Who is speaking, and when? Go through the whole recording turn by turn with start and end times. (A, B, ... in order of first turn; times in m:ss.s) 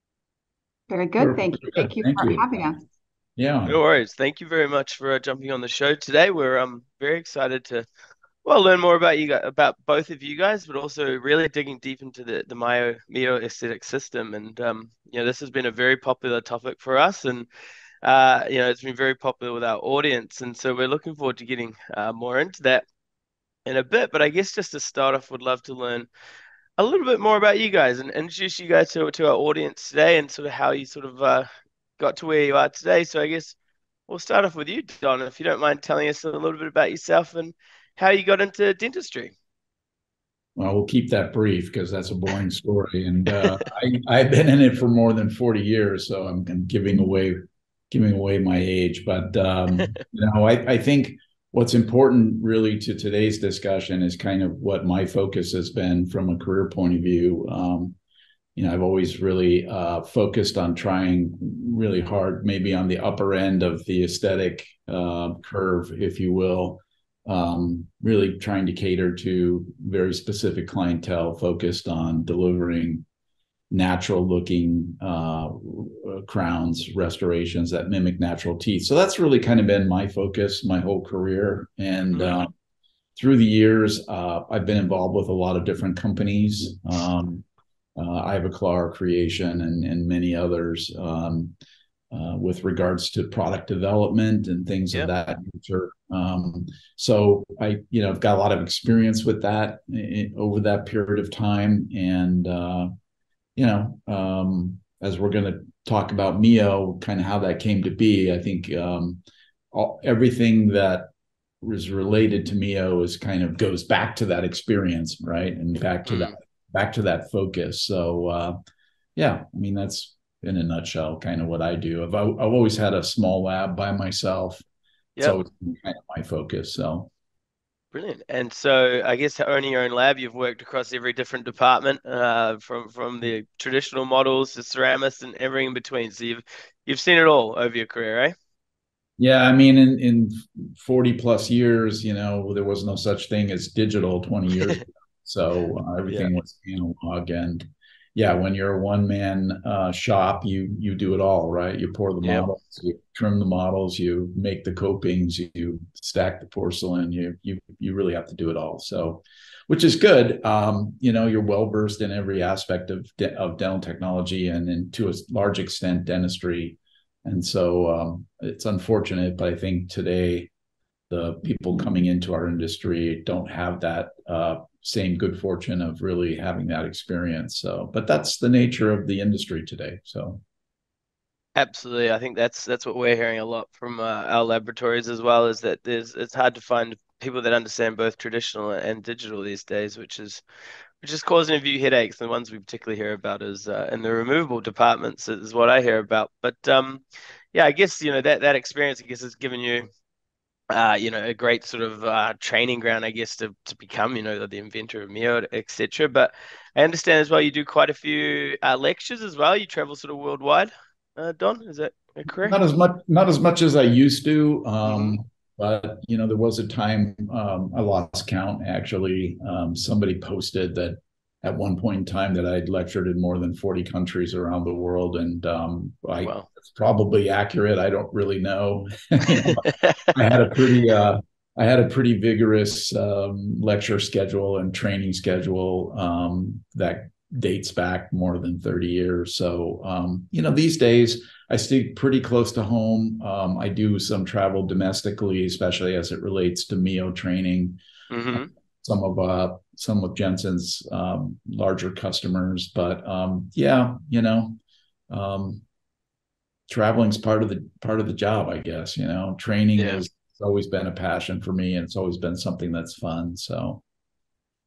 0:00.9-0:02.8 A
0:01.2-0:02.7 B
0:03.4-0:03.8 B
0:03.6-0:07.9 C
0:08.4-0:17.5 C
0:18.0-0:22.8 C
0:23.6-0:26.1 C
0:26.8-0:31.5 C
0:32.0-0:33.6 C
0:34.1-0:39.3 C
0:40.6-0:58.0 B
0:58.6-1:13.0 B
1:13.7-1:22.5 B
1:22.1-1:22.4 C
1:23.2-1:31.5 B
1:32.1-1:42.9 B
1:43.6-1:49.2 B
1:49.7-1:51.1 B
1:51.6-1:58.6 B
1:56.1-1:56.3 C
1:59.2-2:04.6 B
2:05.2-2:07.1 B
2:07.9-2:18.3 C
2:19.2-2:50.5 B
2:51.1-3:00.4 B
3:01.5-3:10.4 C
3:11.0-3:19.9 C
3:20.7-3:32.6 C
3:32.3-4:07.8 B
3:34.8-3:35.2 C
3:49.4-3:50.1 C
4:08.1-4:08.5 C
4:08.3-4:14.6 B
4:15.1-4:15.6 B
4:16.7-4:23.8 B
4:19.8-4:20.0 C